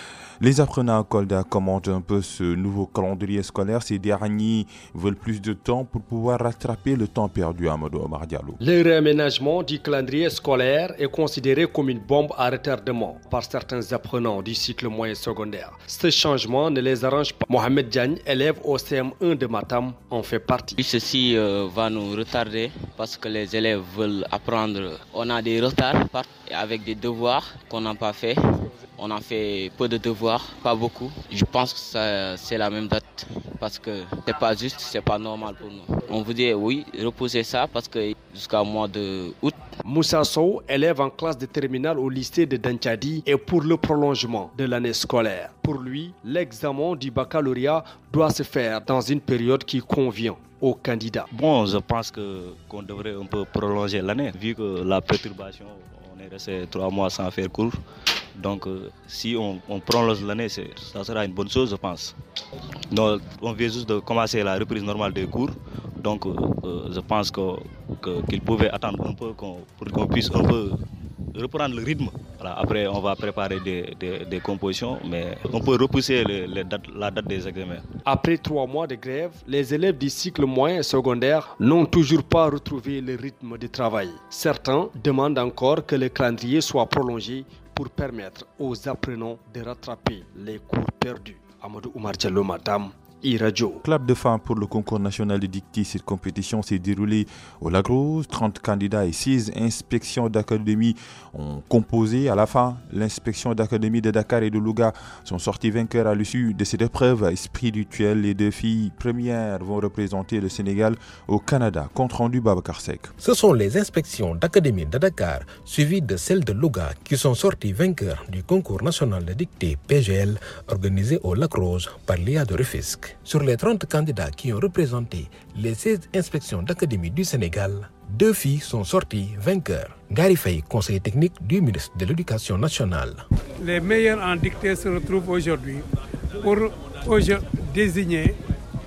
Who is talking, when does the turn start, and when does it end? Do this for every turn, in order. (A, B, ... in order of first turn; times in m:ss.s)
0:00.4-0:08.6 A
0:08.6-0:20.8 B
0:20.8-0:39.6 C
0:39.8-0:51.3 B
0:51.3-0:57.8 D
0:58.4-1:02.2 D
1:02.9-1:10.8 D
1:11.3-1:17.9 D
1:18.1-1:33.8 B
1:33.8-1:53.1 A
1:53.2-2:13.2 E
2:13.7-2:15.8 F
2:16.5-2:18.3 F